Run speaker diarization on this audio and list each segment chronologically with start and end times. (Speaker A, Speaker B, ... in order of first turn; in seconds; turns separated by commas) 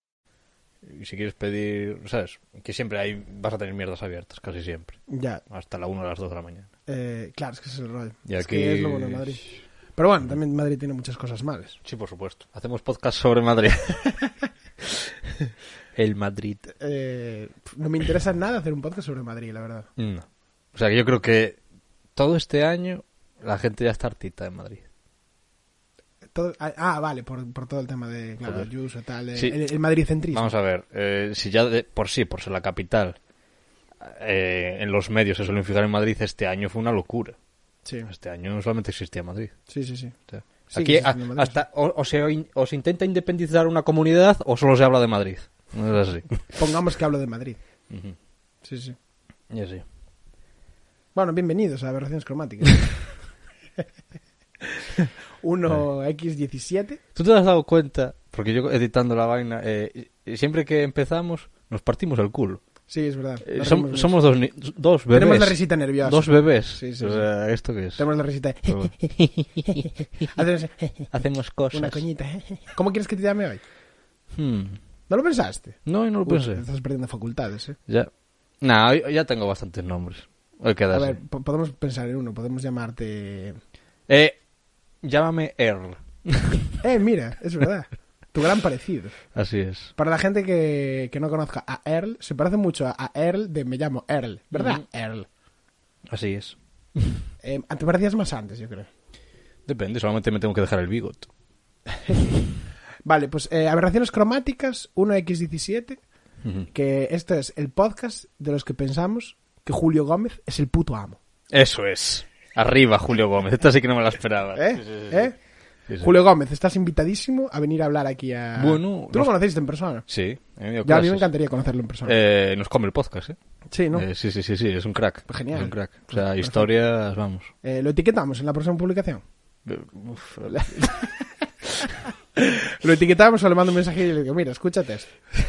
Speaker A: 0.8-6.7, Speaker B: 5.1-5.4, Speaker B: 6.9-11.8, Speaker A: 8.3-9.6, Speaker A: 11.8-14.0, Speaker A: 15.9-16.7, Speaker B: 16.8-19.9, Speaker A: 20.0-21.6, Speaker A: 22.1-24.8, Speaker B: 26.3-30.5, Speaker A: 30.3-33.2, Speaker A: 34.0-37.4, Speaker A: 38.1-39.5, Speaker B: 39.7-40.2, Speaker A: 40.3-46.5, Speaker B: 40.7-41.6, Speaker B: 46.6-47.6, Speaker A: 47.9-48.2, Speaker B: 48.6-49.0, Speaker A: 49.5-49.8, Speaker B: 51.1-53.1, Speaker B: 54.7-57.0, Speaker A: 57.1-62.6, Speaker B: 62.9-64.2, Speaker A: 63.4-68.0, Speaker B: 65.1-67.3, Speaker B: 68.0-69.1, Speaker A: 68.7-70.4, Speaker B: 70.3-71.1, Speaker A: 71.1-72.0, Speaker B: 71.7-73.6, Speaker A: 74.3-74.8, Speaker B: 75.1-77.8, Speaker A: 75.9-76.6, Speaker A: 78.6-81.2, Speaker B: 80.9-83.6, Speaker A: 84.1-84.4, Speaker A: 85.0-86.7, Speaker B: 86.8-89.3, Speaker A: 89.3-89.9, Speaker B: 90.0-95.3, Speaker A: 94.5-94.8, Speaker A: 96.1-97.2, Speaker B: 97.4-98.9, Speaker A: 99.7-101.3, Speaker B: 103.0-106.0, Speaker B: 106.7-111.2, Speaker A: 111.5-115.3, Speaker B: 114.5-115.3, Speaker A: 115.9-116.1, Speaker B: 116.0-120.1, Speaker A: 118.6-119.3, Speaker A: 120.1-121.3, Speaker B: 120.8-122.2, Speaker A: 122.0-123.4, Speaker B: 123.7-124.1, Speaker A: 123.9-127.5, Speaker B: 125.3-126.7, Speaker B: 127.6-129.2, Speaker A: 129.7-130.9, Speaker B: 130.5-135.1